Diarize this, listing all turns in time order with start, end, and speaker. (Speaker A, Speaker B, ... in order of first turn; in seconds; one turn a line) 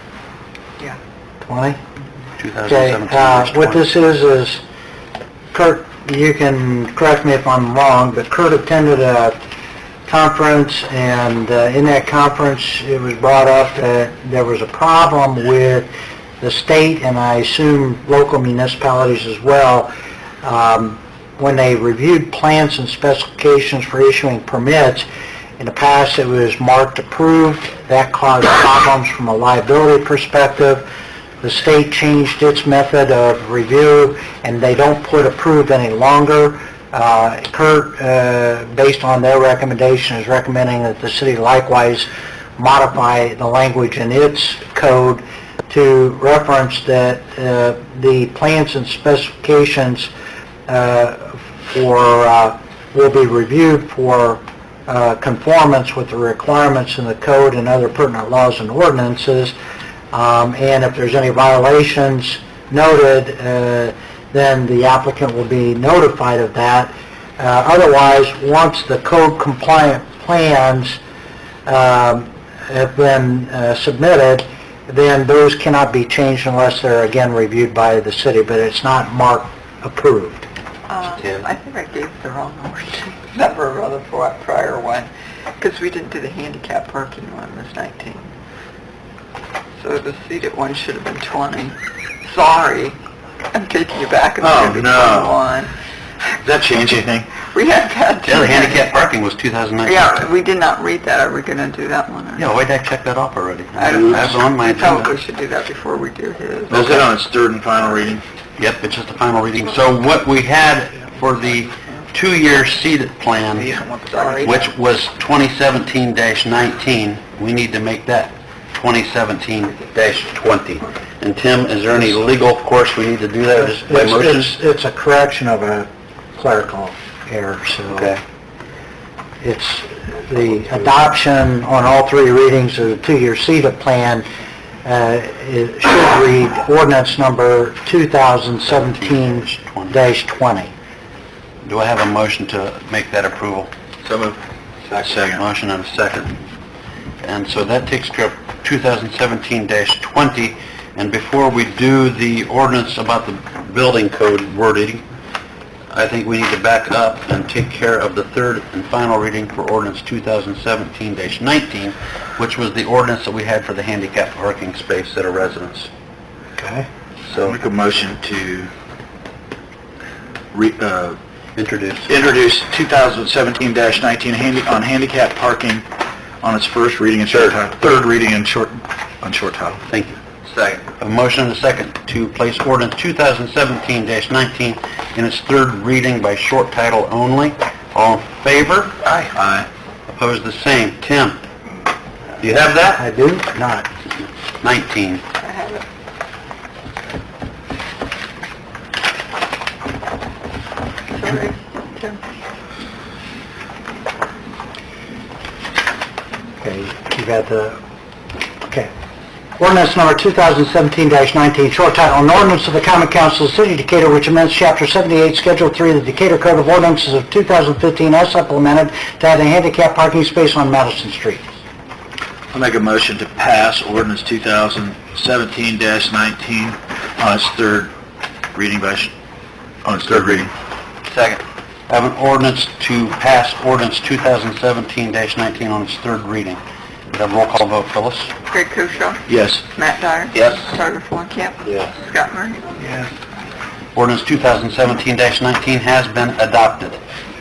Speaker A: 1.4-1.8
Speaker B: 2.4-3.8
Speaker A: 2.7-4.6
Speaker A: 5.5-9.4
Speaker A: 10.1-15.9
Speaker A: 16.4-19.9
Speaker A: 20.4-25.1
Speaker A: 25.6-30.9
Speaker A: 31.4-50.1
Speaker A: 50.7-59.5
Speaker A: 60.1-71.0
Speaker A: 71.7-80.5
Speaker C: 80.9-88.3
Speaker C: 89.8-93.0
Speaker C: 93.5-95.7
Speaker D: 94.4-95.4
Speaker D: 96.4-97.3
Speaker C: 97.4-99.1
Speaker B: 98.2-100.1
Speaker C: 99.8-102.5
Speaker B: 102.3-105.1
Speaker C: 103.8-107.0
Speaker D: 106.7-108.2
Speaker B: 106.8-107.0
Speaker B: 108.6-113.7
Speaker D: 113.5-114.7
Speaker C: 114.1-114.5
Speaker B: 114.4-124.5
Speaker A: 123.6-128.2
Speaker B: 127.9-128.2
Speaker A: 129.4-134.2
Speaker A: 134.8-140.7
Speaker B: 138.7-140.0
Speaker B: 141.6-143.7
Speaker D: 144.0-145.4
Speaker B: 145.3-146.4
Speaker B: 147.2-155.0
Speaker B: 155.9-165.9
Speaker A: 166.6-166.9
Speaker B: 167.3-167.6
Speaker D: 167.3-168.7
Speaker D: 170.5-171.2
Speaker B: 171.6-172.1
Speaker D: 172.1-175.8
Speaker D: 176.4-179.8
Speaker B: 179.9-189.0
Speaker D: 189.1-189.7
Speaker B: 190.1-191.4
Speaker B: 192.4-193.0
Speaker A: 192.9-193.9
Speaker B: 194.6-195.2
Speaker C: 195.4-195.8
Speaker C: 201.1-202.2
Speaker A: 206.6-207.8
Speaker A: 209.6-221.4
Speaker D: 222.5-227.9
Speaker D: 228.5-229.1
Speaker D: 229.8-230.5
Speaker B: 230.1-230.5
Speaker B: 231.1-236.6
Speaker B: 237.1-238.3
Speaker C: 238.5-242.6
Speaker D: 239.3-239.7
Speaker B: 243.9-247.0